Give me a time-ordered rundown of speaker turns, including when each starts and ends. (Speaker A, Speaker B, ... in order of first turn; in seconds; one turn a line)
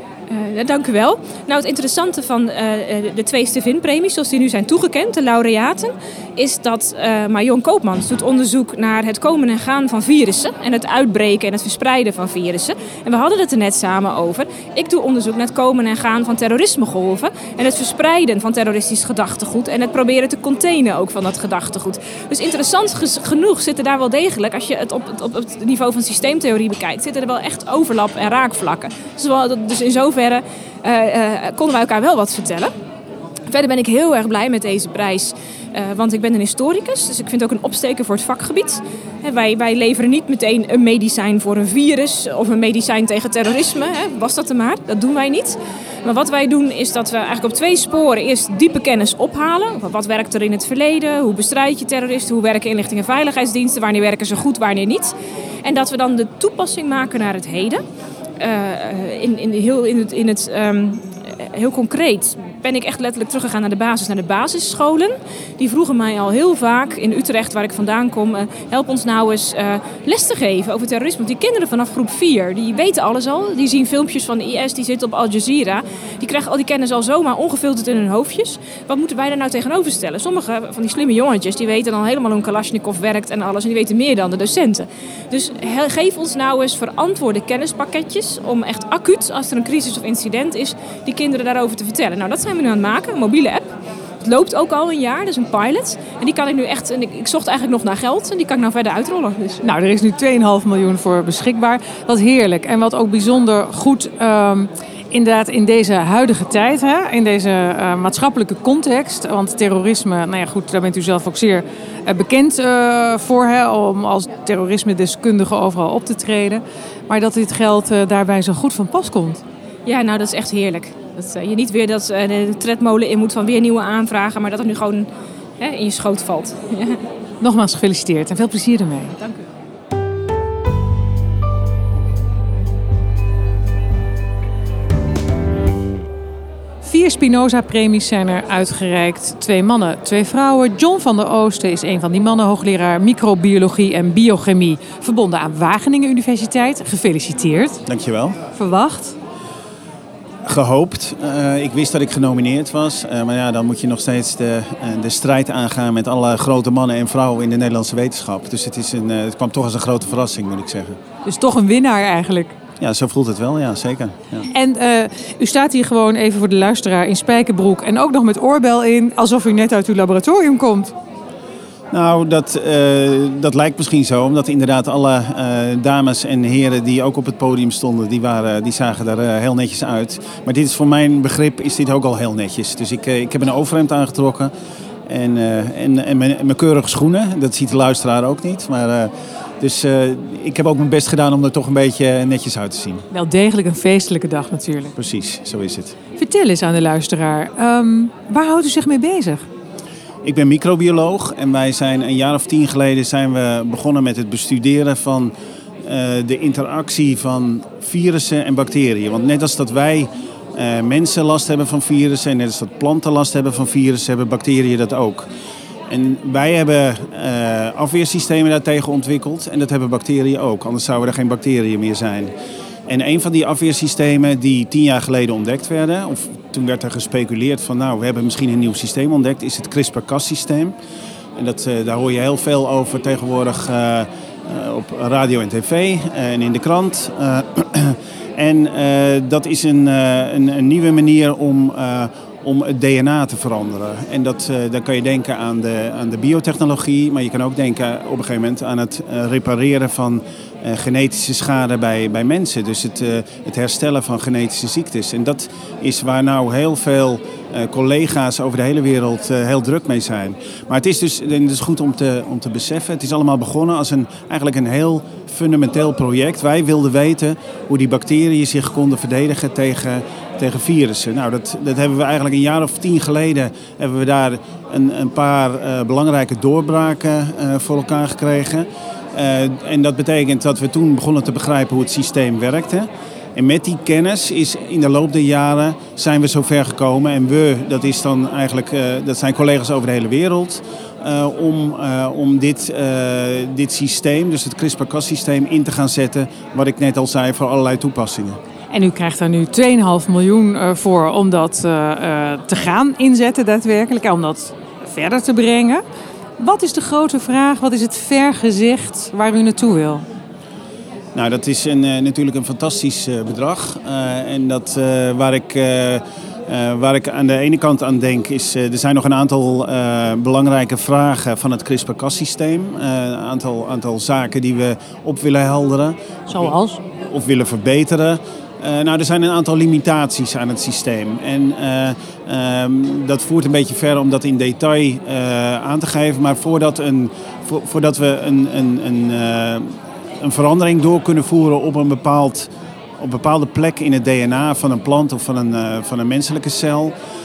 Speaker A: 0.3-32.7
Speaker A: 33.5-57.8
Speaker A: 58.4-93.7
Speaker A: 94.2-99.7
Speaker B: 99.6-119.4
Speaker A: 119.9-127.0
Speaker B: 127.4-129.2
Speaker B: 136.8-147.8
Speaker C: 147.9-148.4
Speaker B: 148.5-149.2
Speaker C: 150.4-161.0
Speaker B: 161.2-162.6
Speaker C: 162.8-164.5
Speaker B: 164.5-170.9
Speaker C: 171.9-184.5
Speaker C: 185.1-193.1
Speaker B: 193.1-194.9
Speaker C: 195.0-196.0
Speaker B: 196.2-199.5
Speaker C: 200.2-205.3
Speaker C: 205.8-215.3
Speaker C: 215.9-222.3
Speaker C: 222.9-230.7
Speaker C: 231.4-298.4
Speaker B: 298.7-305.8
Speaker B: 306.4-310.1
Speaker C: 311.1-346.9
Speaker B: 326.3-326.8